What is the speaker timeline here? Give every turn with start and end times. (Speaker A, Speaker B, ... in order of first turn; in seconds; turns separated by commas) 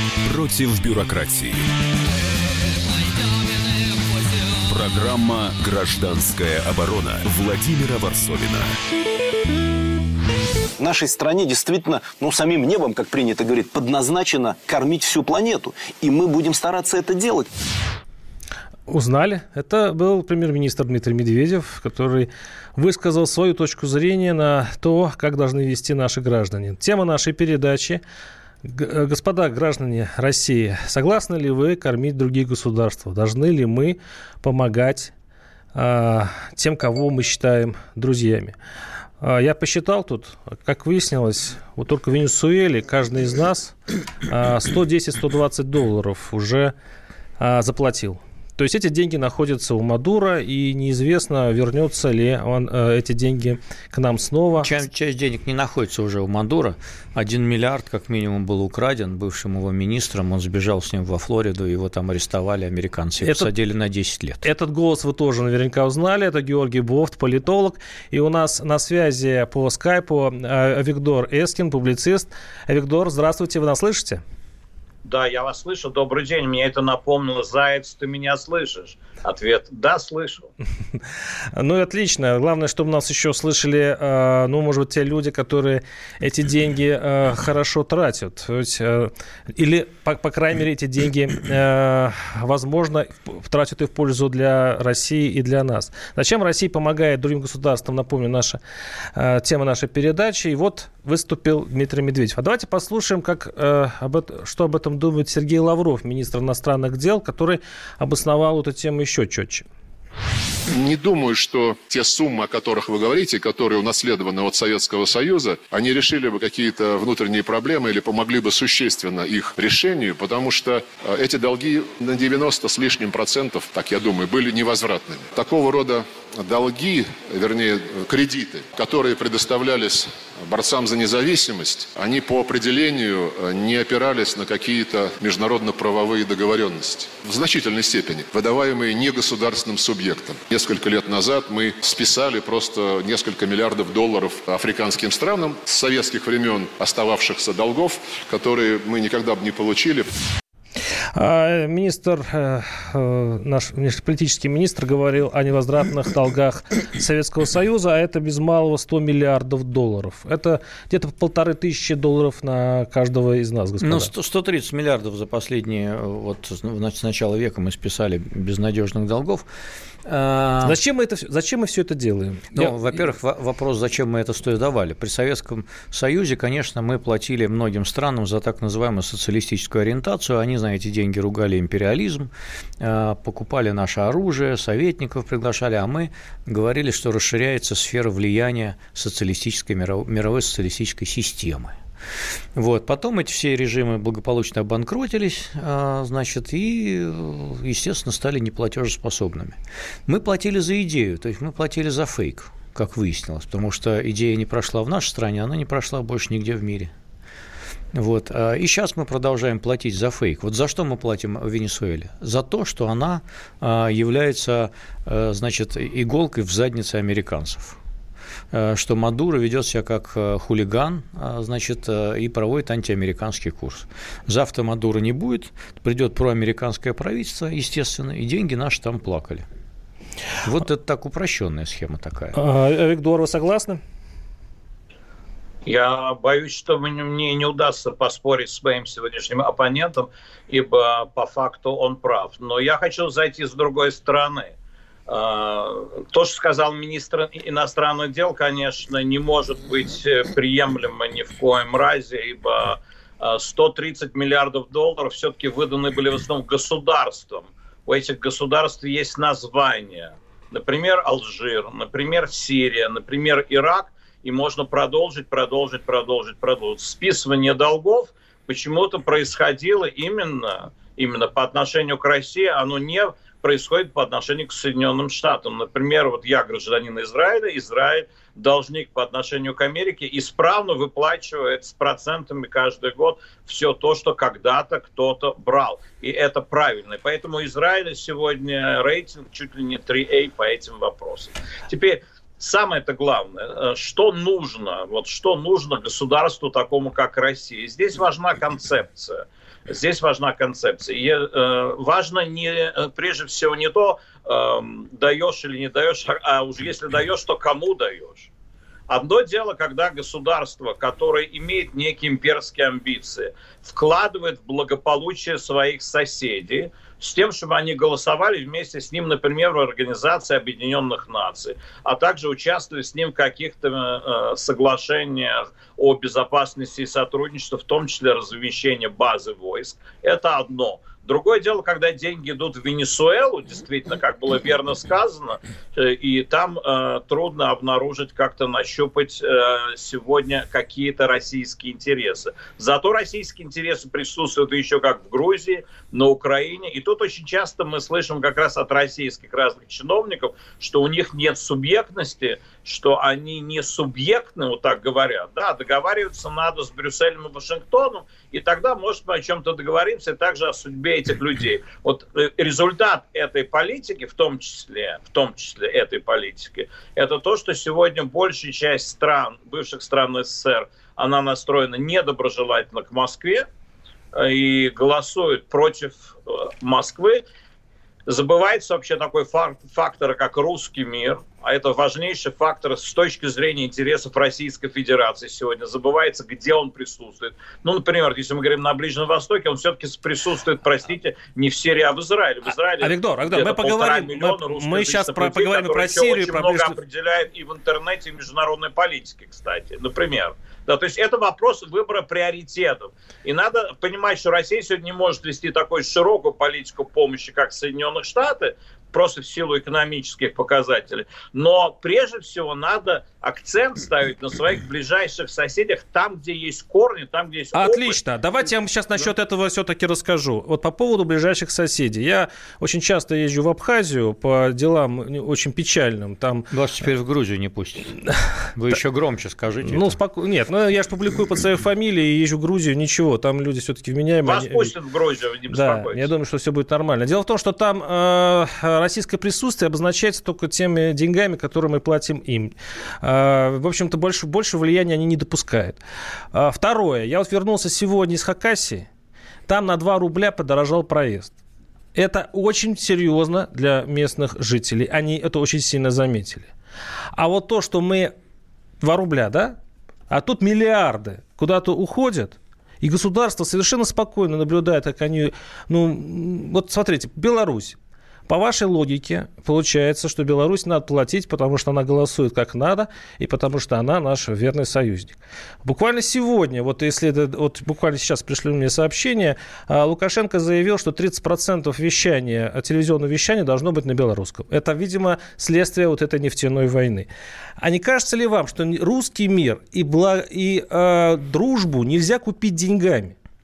Speaker A: 0.3-1.7, Speaker A: 4.7-8.8, Speaker B: 10.8-17.5, Speaker C: 18.9-28.0, Speaker C: 28.6-35.1, Speaker C: 35.7-38.5, Speaker C: 39.2-43.8, Speaker C: 44.3-46.7, Speaker C: 47.4-54.7, Speaker D: 54.6-64.5, Speaker C: 63.2-63.5, Speaker C: 64.4-74.2, Speaker E: 75.0-80.5, Speaker C: 81.5-98.6, Speaker C: 99.2-109.7, Speaker F: 110.7-150.1, Speaker C: 151.2-164.1, Speaker D: 163.8-169.5, Speaker D: 170.1-170.8, Speaker C: 170.6-172.8, Speaker D: 172.5-191.8, Speaker D: 192.6-206.9, Speaker D: 207.9-217.8, Speaker D: 218.5-229.5, Speaker D: 230.4-232.4, Speaker C: 232.3-233.8, Speaker E: 235.7-244.5, Speaker E: 245.1-308.3, Speaker E: 308.9-373.5, Speaker E: 374.1-377.2, Speaker E: 378.1-418.0, Speaker C: 392.8-396.8, Speaker C: 417.6-426.5, Speaker D: 426.5-428.0, Speaker D: 428.6-430.0, Speaker C: 429.6-434.7, Speaker E: 434.2-436.1, Speaker C: 435.5-445.8, Speaker C: 446.3-448.9, Speaker C: 449.5-451.3, Speaker C: 451.9-456.5, Speaker C: 457.1-458.1, Speaker C: 458.8-459.6, Speaker C: 460.1-467.8, Speaker C: 468.3-487.1, Speaker C: 487.6-493.1